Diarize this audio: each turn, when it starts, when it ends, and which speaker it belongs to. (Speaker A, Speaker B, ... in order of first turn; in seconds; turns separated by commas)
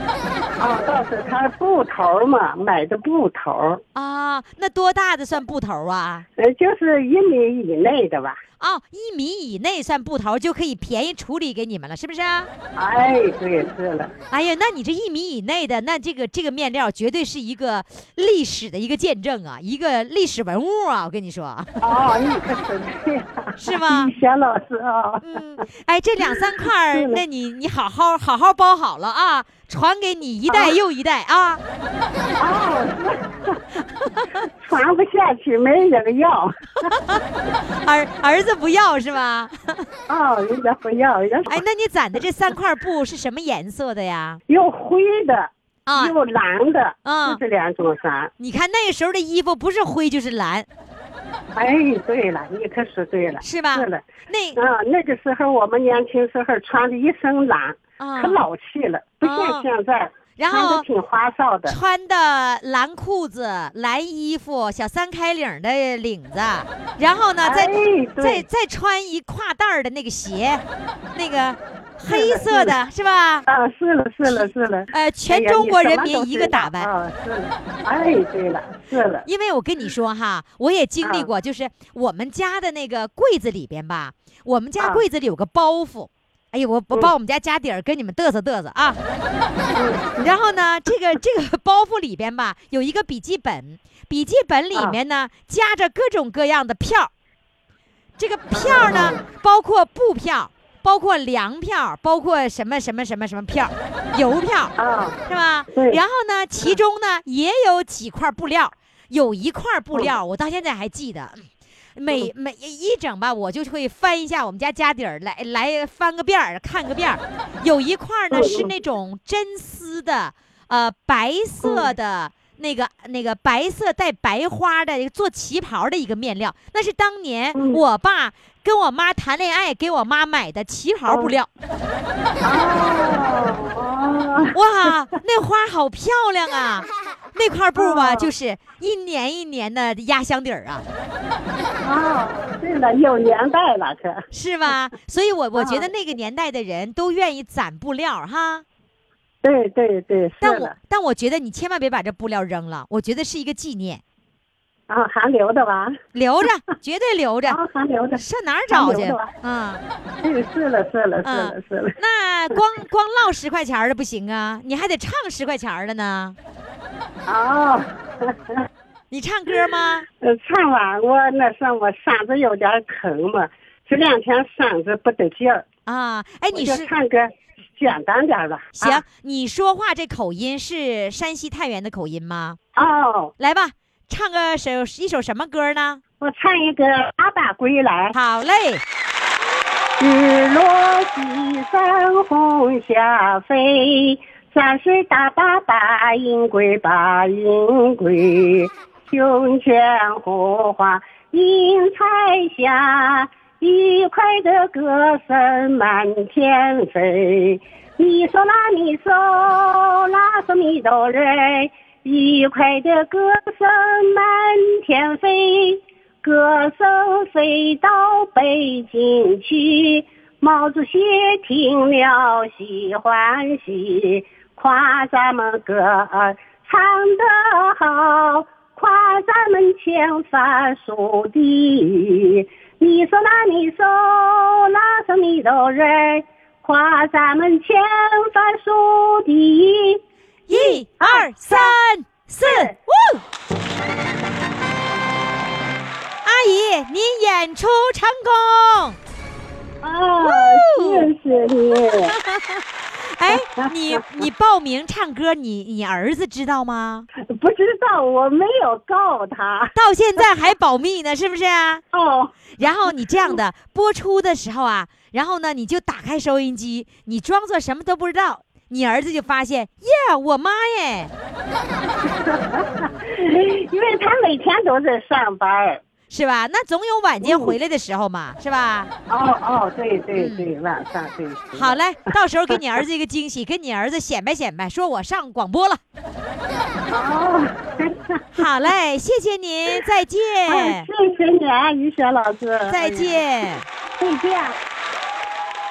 Speaker A: 0.6-3.8, Speaker B: 3.9-6.2, Speaker A: 6.4-8.4, Speaker B: 8.6-12.5, Speaker A: 12.7-14.1, Speaker B: 14.3-21.8, Speaker A: 21.8-25.3, Speaker B: 23.6-24.1, Speaker B: 25.2-31.6, Speaker A: 26.3-27.2, Speaker A: 30.5-30.7, Speaker A: 32.4-33.6, Speaker A: 34.6-36.9, Speaker B: 36.9-37.2, Speaker B: 37.8-39.9, Speaker A: 40.1-41.6, Speaker B: 41.5-44.4, Speaker A: 44.5-48.3, Speaker B: 45.9-46.1, Speaker B: 47.0-47.4, Speaker B: 48.4-50.7, Speaker A: 51.5-61.8, Speaker B: 53.4-54.6, Speaker B: 58.0-58.4, Speaker B: 59.2-59.6, Speaker B: 60.4-60.9, Speaker B: 61.6-73.5, Speaker A: 67.4-68.4, Speaker A: 72.1-72.8, Speaker A: 73.5-79.3, Speaker B: 74.2-76.9, Speaker B: 79.2-89.0, Speaker A: 81.0-81.3, Speaker A: 84.8-85.0, Speaker A: 89.7-90.1, Speaker B: 90.2-97.1, Speaker B: 98.2-104.7, Speaker A: 98.5-99.2, Speaker A: 104.8-105.2, Speaker B: 105.2-131.5, Speaker A: 105.7-106.0, Speaker A: 118.3-118.7, Speaker A: 121.6-121.9, Speaker A: 127.5-127.8, Speaker A: 131.1-131.3, Speaker A: 132.4-134.9, Speaker B: 134.5-140.8, Speaker A: 137.8-138.3, Speaker A: 141.8-144.2, Speaker B: 144.3-148.7, Speaker A: 145.6-145.9, Speaker A: 149.4-150.7, Speaker B: 150.4-154.0, Speaker A: 154.9-156.0, Speaker B: 156.1-157.6, Speaker A: 157.5-159.3, Speaker B: 158.2-159.8, Speaker A: 160.2-162.0, Speaker B: 161.2-166.3, Speaker A: 167.3-168.7, Speaker B: 169.1-170.1, Speaker A: 170.2-175.7, Speaker B: 175.8-176.9, Speaker A: 176.5-179.0, Speaker B: 178.8-182.6, Speaker A: 182.8-183.3, Speaker B: 183.4-186.0, Speaker A: 186.2-188.2, Speaker B: 188.1-188.8, Speaker A: 190.0-241.8, Speaker B: 240.5-243.2, Speaker A: 242.4-242.8, Speaker B: 246.2-249.0, Speaker A: 249.8-252.2, Speaker B: 250.2-251.1, Speaker B: 252.1-257.1, Speaker A: 253.3-254.2, Speaker A: 257.2-260.3, Speaker B: 259.8-261.8, Speaker A: 261.9-262.5, Speaker B: 262.6-271.1, Speaker A: 272.2-275.8, Speaker B: 276.1-278.9, Speaker A: 277.2-277.5, Speaker A: 279.1-281.8, Speaker B: 280.1-280.5, Speaker B: 281.5-285.8, Speaker A: 286.9-288.5, Speaker B: 288.4-290.9, Speaker A: 290.5-293.2, Speaker B: 292.7-293.6, Speaker A: 294.0-294.6